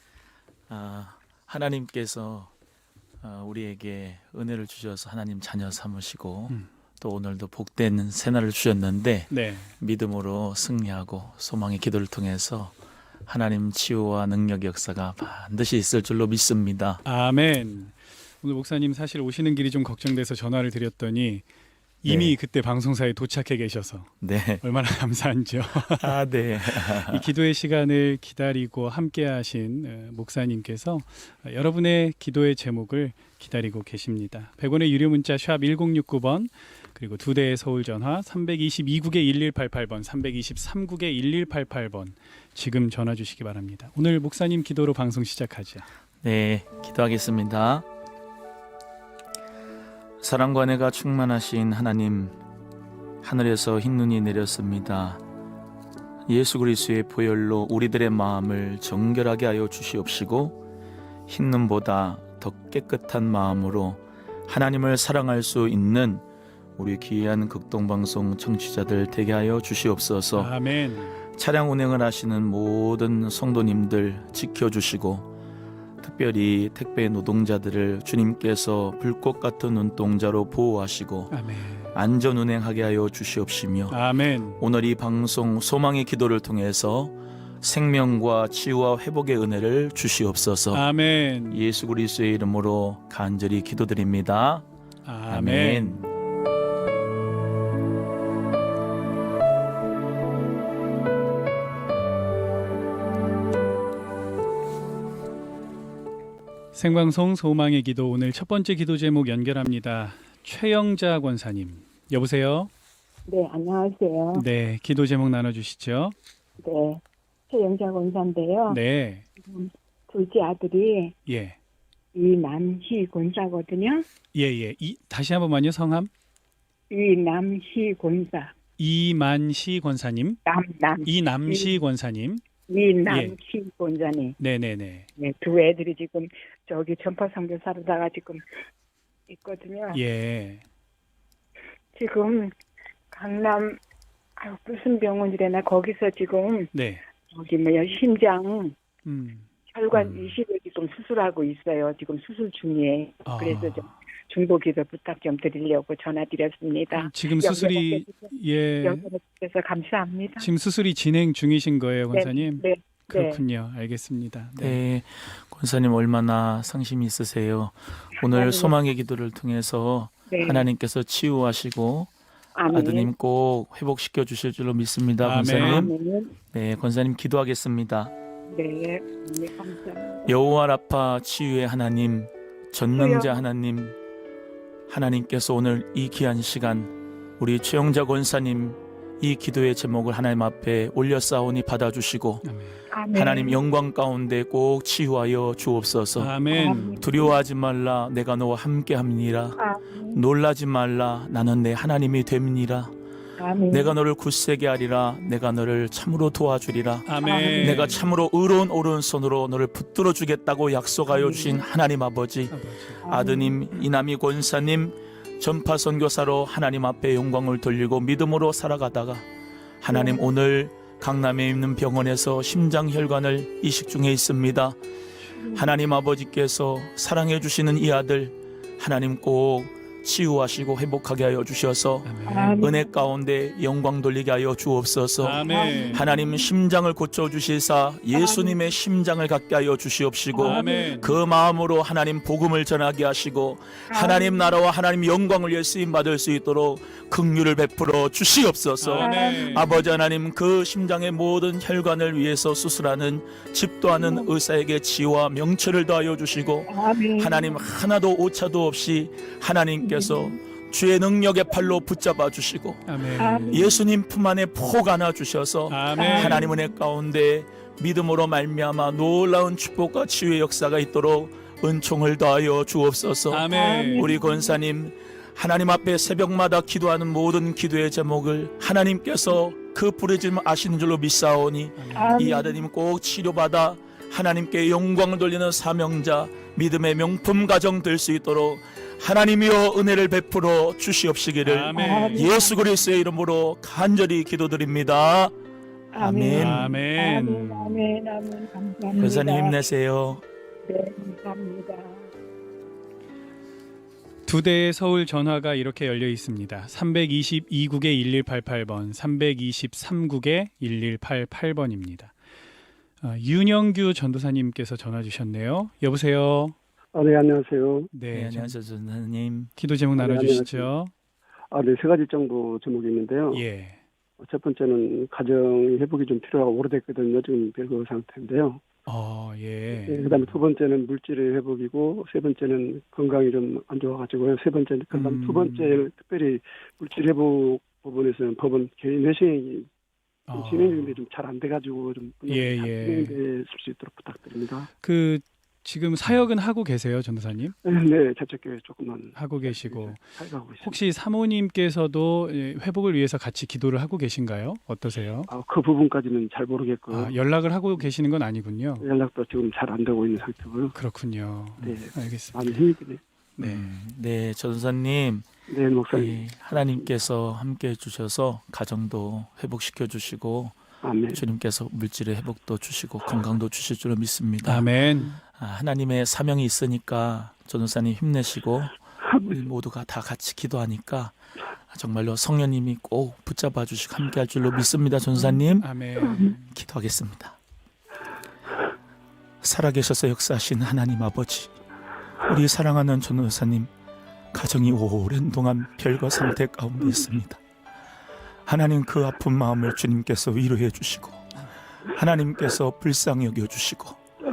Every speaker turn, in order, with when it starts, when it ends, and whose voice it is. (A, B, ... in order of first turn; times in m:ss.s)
0:00.7-0:02.5 A
0:03.2-0:12.8 A
0:09.3-0:09.8 B
0:13.3-0:17.0 A
0:17.0-0:21.4 B
0:22.0-0:45.9 B
0:22.1-0:22.4 A
0:24.2-0:24.6 A
0:26.0-0:27.3 A
0:46.2-0:47.9 A
0:50.2-0:52.4 A
0:53.2-0:55.2 A
0:56.3-1:00.6 A
1:01.3-1:06.2 A
1:06.8-1:10.5 A
1:10.4-1:11.2 B
1:11.3-1:15.3 A
1:16.0-1:21.3 A
1:21.3-1:22.0 B
1:21.9-1:24.0 A
1:23.9-1:24.6 B
1:24.6-1:30.8 A
1:30.7-1:31.6 B
1:31.5-1:34.7 A
1:35.1-1:36.1 B
1:35.3-1:36.0 A
1:46.7-1:52.7 B
1:53.3-1:54.4 C
1:54.3-1:56.2 B
1:56.6-1:58.8 C
1:58.7-1:59.2 B
1:59.4-2:01.2 C
2:01.3-2:01.6 B
2:02.2-2:04.1 C
2:04.3-2:06.1 B
2:06.9-2:08.5 C
2:08.8-2:10.4 B
2:10.5-2:11.8 C
2:11.0-2:12.4 B
2:12.7-2:14.4 C
2:13.1-2:13.4 B
2:14.4-2:15.1 B
2:15.2-2:18.4 C
2:19.3-2:20.0 C
2:19.9-2:20.6 B
2:22.0-2:22.5 C
2:23.1-2:23.8 C
2:24.4-2:26.7 C
2:26.7-2:27.0 B
2:27.3-2:28.8 C
2:29.0-2:30.3 B
2:29.7-2:38.3 C
2:33.3-2:34.0 B
2:36.9-2:39.1 B
2:38.8-2:40.5 C
2:40.4-2:44.8 B
2:42.1-2:43.4 C
2:44.6-2:52.1 A
2:48.2-2:48.7 C
2:50.3-2:50.7 C
2:52.6-2:53.1 C
2:52.7-2:55.9 A
2:55.2-2:55.9 B
2:55.5-2:56.4 C
2:56.5-2:58.1 A
2:58.5-3:00.3 C
3:00.3-3:04.0 A
3:03.0-3:03.4 C
3:04.9-3:12.4 A
3:12.4-3:12.8 B
3:12.9-3:13.6 C
3:13.1-3:16.4 A
3:16.2-3:17.0 B
3:16.5-3:17.4 C
3:17.0-3:19.6 A
3:19.6-3:20.2 C
3:20.1-3:22.9 A
3:23.4-3:24.0 C
3:23.7-3:39.3 A
3:27.1-3:28.0 B
3:27.2-3:27.9 C
3:31.1-3:31.6 C
3:32.5-3:33.0 B
3:33.1-3:33.6 C
3:39.8-3:44.8 A
3:39.9-3:40.4 C
3:45.5-4:55.4 A
3:52.0-3:52.6 B
3:52.3-3:52.9 C
3:55.2-3:56.0 B
3:55.5-3:56.5 C
3:58.1-3:58.6 C
4:00.4-4:01.2 C
4:00.4-4:01.1 B
4:03.9-4:04.6 C
4:08.8-4:09.7 B
4:09.0-4:09.9 C
4:13.9-4:14.3 C
4:16.7-4:17.6 C
4:19.8-4:20.4 C
4:22.9-4:23.6 B
4:23.2-4:23.8 C
4:25.7-4:26.4 B
4:26.0-4:26.7 C
4:33.3-4:34.1 B
4:33.5-4:34.6 C
4:41.8-4:42.2 B
4:42.0-4:42.7 C
4:51.4-4:52.3 B
4:51.7-4:52.6 C
4:55.9-4:59.7 C
4:56.0-4:56.7 A
4:56.3-4:57.8 B
4:59.0-5:00.2 A
5:00.7-5:02.1 C
5:04.3-5:12.1 B
5:13.0-5:16.6 B
5:16.9-5:17.9 D
5:17.9-5:18.5 B
5:18.1-5:19.5 A
5:19.6-5:20.9 B
5:20.0-5:20.7 D
5:21.5-5:23.4 D
5:23.3-5:23.8 B
5:24.2-5:28.6 D
5:28.9-5:30.1 B
5:29.8-5:39.7 D
5:34.9-5:35.9 B
5:40.3-5:41.0 B
5:40.3-5:44.7 D
5:42.3-5:43.2 B
5:44.8-5:47.6 B
5:47.6-5:50.8 D
5:49.2-5:50.1 B
5:50.6-5:55.3 B
5:55.3-5:57.2 D
5:56.9-5:58.9 B
5:58.8-6:00.8 D
6:00.8-6:02.6 B
6:01.6-6:03.0 D
6:03.4-6:03.7 B
6:03.4-6:05.3 A
6:05.5-6:06.9 D
6:05.9-6:10.6 A
6:10.8-6:11.2 D
6:11.1-6:14.7 A
6:14.4-6:15.2 B
6:15.2-6:21.2 A
6:21.7-6:25.7 A
6:25.6-6:26.6 B
6:26.5-6:27.4 A
6:29.4-6:31.5 A
6:32.2-6:33.7 A
6:34.3-6:37.4 A
6:38.5-6:44.0 A